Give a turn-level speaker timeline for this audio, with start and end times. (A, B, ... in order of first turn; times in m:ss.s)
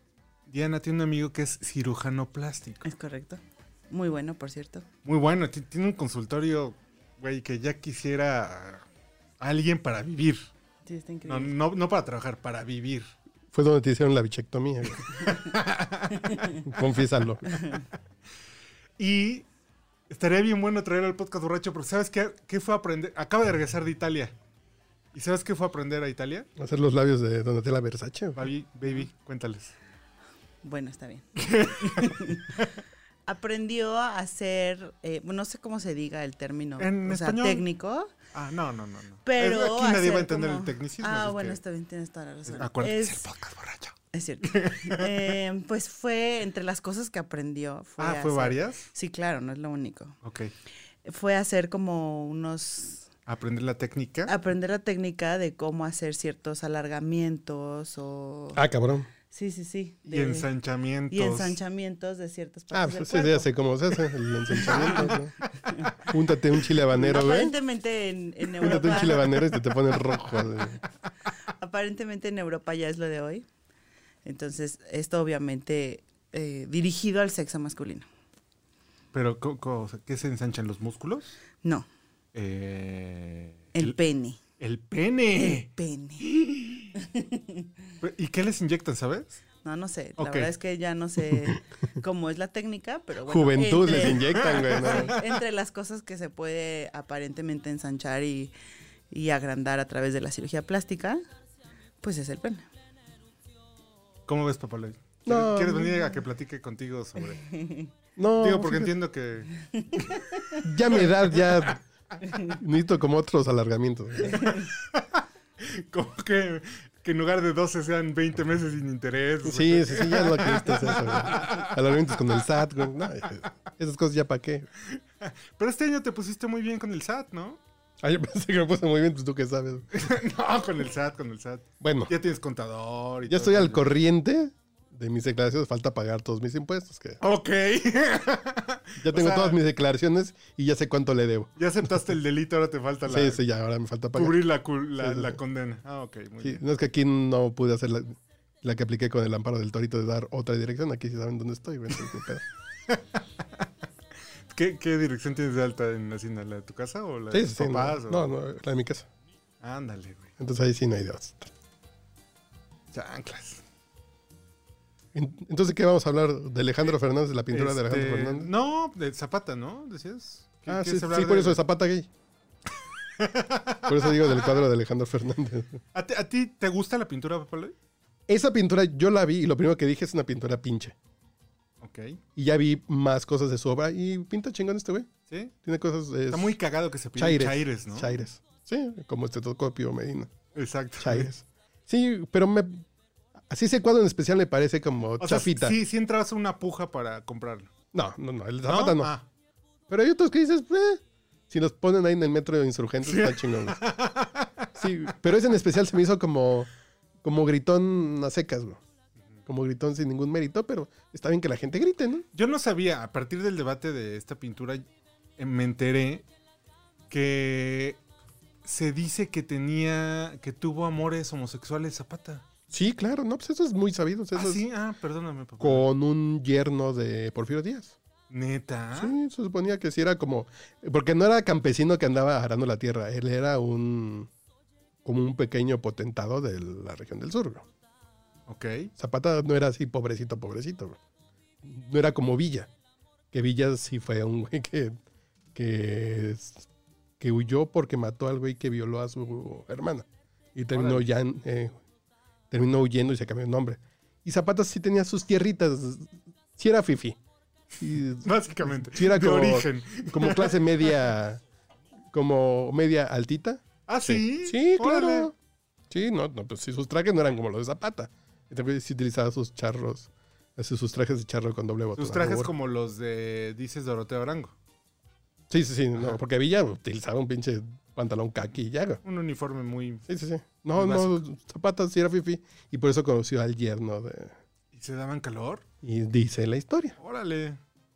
0:00.5-0:02.8 A
0:02.8-0:04.8 B
0:05.0-0:08.8 A
0:09.4-0:10.5 A
0:10.8-0:11.5 B
0:11.2-0:13.1 A
0:13.5-0:15.1 C
0:15.0-0:16.7 A
0:16.2-0:16.5 B
0:16.6-0:17.4 C
0:17.5-0:17.8 B
0:19.0-0:19.4 A
0:20.1-0:24.3 A
0:25.1-0:26.5 A
0:26.6-0:28.5 C
0:28.4-0:29.7 A
0:30.6-0:32.6 B
0:31.4-0:32.7 A
0:33.2-0:38.1 B
0:36.8-0:37.6 A
0:38.3-0:41.6 A
0:39.2-0:43.3 B
0:42.4-0:45.4 A
0:44.1-0:50.1 B
0:48.0-0:48.9 A
0:50.2-0:50.5 A
0:51.0-0:53.1 B
0:53.3-0:54.3 A
0:54.3-0:58.6 B
0:58.5-0:59.1 C
0:59.3-1:00.5 B
1:00.1-1:01.6 A
1:01.1-1:03.5 B
1:02.7-1:05.4 C
1:04.5-1:06.1 B
1:04.5-1:05.2 A
1:06.0-1:07.6 C
1:06.9-1:09.5 B
1:08.6-1:10.8 C
1:08.6-1:09.5 A
1:11.4-1:13.4 B
1:14.2-1:18.1 B
1:19.1-1:21.4 A
1:21.6-1:21.9 B
1:22.3-1:24.0 A
1:23.7-1:24.4 B
1:24.6-1:26.9 A
1:25.4-1:26.2 B
1:27.0-1:27.7 B
1:28.0-1:29.4 A
1:29.6-1:38.5 B
1:30.2-1:30.5 A
1:31.3-1:31.6 C
1:33.2-1:35.1 C
1:33.8-1:35.3 A
1:39.1-1:41.2 B
1:42.0-1:42.7 B
1:44.3-1:47.6 A
1:45.2-1:46.0 C
1:47.5-1:47.9 B
1:48.2-1:48.9 C
1:48.4-1:49.5 A
1:49.6-1:50.6 B
1:50.6-1:51.8 C
1:50.9-1:51.7 A
1:52.3-1:52.5 B
1:52.5-1:54.4 C
1:54.3-2:02.4 A
1:54.3-1:54.6 B
1:59.4-2:04.7 C
2:04.9-2:07.6 A
2:08.0-2:09.9 C
2:09.9-2:13.9 A
2:11.8-2:12.1 C
2:13.3-2:17.2 C
2:17.2-2:19.6 A
2:19.0-2:21.5 C
2:21.6-2:23.4 A
2:23.0-2:24.4 C
2:24.1-2:26.6 A
2:25.0-2:25.4 C
2:26.4-2:32.4 C
2:32.9-2:33.6 A
2:34.5-2:38.3 A
2:37.3-2:39.1 C
2:39.6-2:40.3 A
2:40.4-2:41.5 C
2:42.9-2:43.6 A
2:45.1-2:48.5 C
2:47.5-2:51.6 A
2:50.7-2:52.1 C
2:53.2-2:54.6 A
2:53.8-2:55.8 C
2:55.9-2:57.7 A
2:58.3-3:01.0 C
3:01.8-3:02.2 A
3:02.4-3:05.1 C
3:05.6-3:06.5 C
3:06.3-3:08.2 A
3:07.2-3:10.3 C
3:10.5-3:11.3 A
3:11.0-3:12.8 C
3:13.5-3:15.8 C
3:15.2-3:17.7 A
3:17.9-3:19.1 C
3:18.7-3:19.2 A
3:19.9-3:23.8 C
3:23.0-3:24.7 A
3:24.7-3:26.7 C
3:27.2-3:28.8 C
3:29.4-3:32.2 C
3:32.3-3:34.8 A
3:35.4-3:36.2 A
3:37.1-3:38.0 A
3:38.6-3:42.4 A
3:42.7-3:44.6 C
3:44.3-3:45.9 A
3:45.6-3:48.0 C
3:48.3-3:49.1 A
3:48.9-3:54.3 C
3:55.0-3:57.6 C
3:58.5-3:58.9 A
3:59.0-4:01.0 C
4:01.6-4:02.7 C
4:03.3-4:05.0 C
4:05.5-4:06.7 C
4:07.2-4:11.8 C
4:10.7-4:11.1 A
4:12.5-4:17.2 C
4:17.8-4:21.4 C
4:18.2-4:20.9 A
4:22.1-4:25.3 C
4:23.9-4:25.3 A
4:25.9-4:32.5 C
4:32.0-4:34.5 A
4:35.5-4:39.0 C
4:39.0-4:40.0 A
4:40.1-4:44.4 C
4:40.7-4:41.2 A
4:44.7-4:45.6 A
4:45.8-4:47.0 C
4:47.0-4:47.6 A